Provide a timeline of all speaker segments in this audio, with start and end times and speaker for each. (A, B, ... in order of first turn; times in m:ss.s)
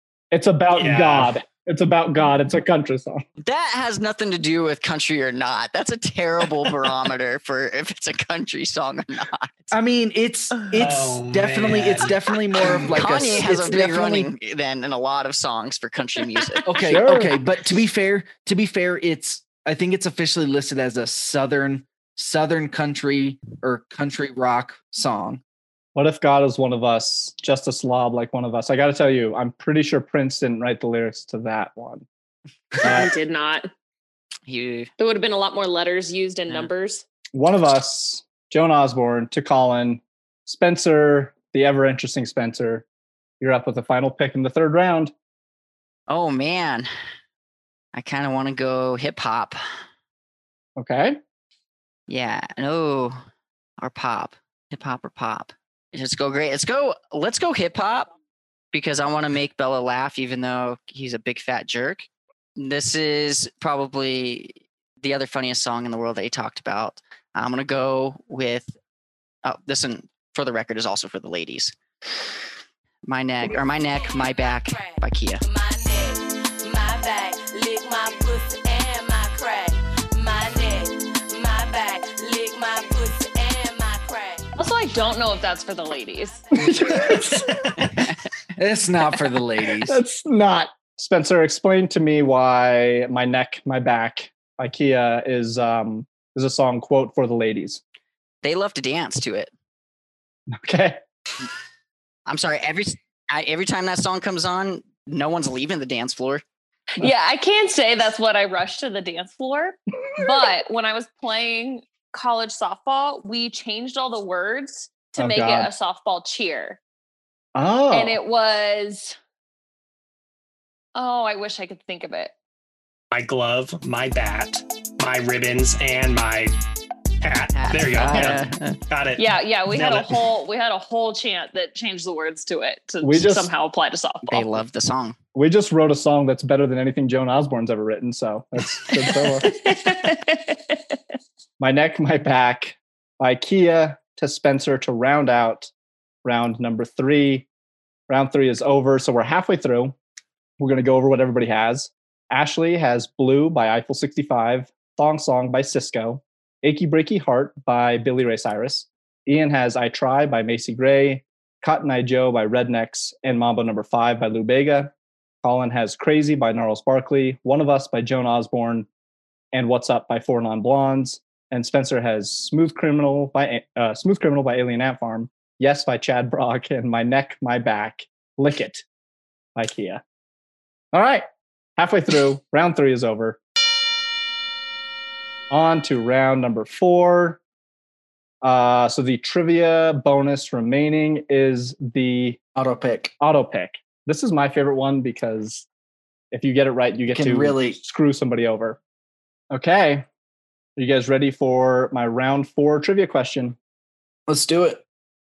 0:00.3-0:03.2 A
0:00.7-0:01.3 B
0:03.4-0:09.7 C
0:09.7-0:14.3 D
0:10.7-0:12.1 B
0:12.6-0:16.7 C
0:16.6-0:25.4 D
0:16.8-0:17.4 A
0:25.9-0:32.0 A
0:32.8-0:33.7 E
0:32.8-0:33.1 A
0:34.5-0:34.9 C
0:35.0-0:37.0 E
0:37.3-0:42.8 A
0:43.4-0:45.1 A
0:46.1-0:46.9 C
0:47.9-0:49.6 C
0:50.8-0:51.2 A
0:52.1-0:53.2 C
0:53.8-0:58.1 C
0:58.7-1:08.7 C
1:09.4-1:11.7 C
1:13.0-1:15.4 C
1:14.0-1:24.6 F
1:24.6-1:26.4 E
1:26.5-1:27.5 A
1:28.6-1:30.0 D
1:29.8-1:37.8 A
1:38.4-1:39.5 C
1:40.5-1:41.0 A
1:42.3-1:46.4 C
1:47.0-1:56.8 E
1:55.2-1:55.7 A
1:57.5-1:58.2 A
1:57.9-1:59.2 E
2:00.9-2:02.3 E
2:03.1-2:06.6 B
2:07.2-2:10.2 B
2:07.5-2:08.8 C
2:09.2-2:14.5 E
2:13.0-2:13.5 A
2:14.2-2:15.2 C
2:15.3-2:19.6 A
2:19.1-2:20.8 E
2:21.6-2:25.7 A
2:26.2-2:27.5 A
2:28.1-2:29.9 A
2:30.6-2:44.9 A
2:45.4-2:48.9 A
2:49.5-2:58.8 A
2:59.6-3:00.0 A
3:00.9-3:03.4 A
3:05.5-3:07.4 A
3:08.4-3:12.4 A
3:12.6-3:13.1 D
3:13.2-3:15.7 A
3:16.3-3:18.8 A
3:17.1-3:17.8 D
3:19.5-3:20.0 A
3:20.8-3:23.6 A
3:24.3-3:24.8 D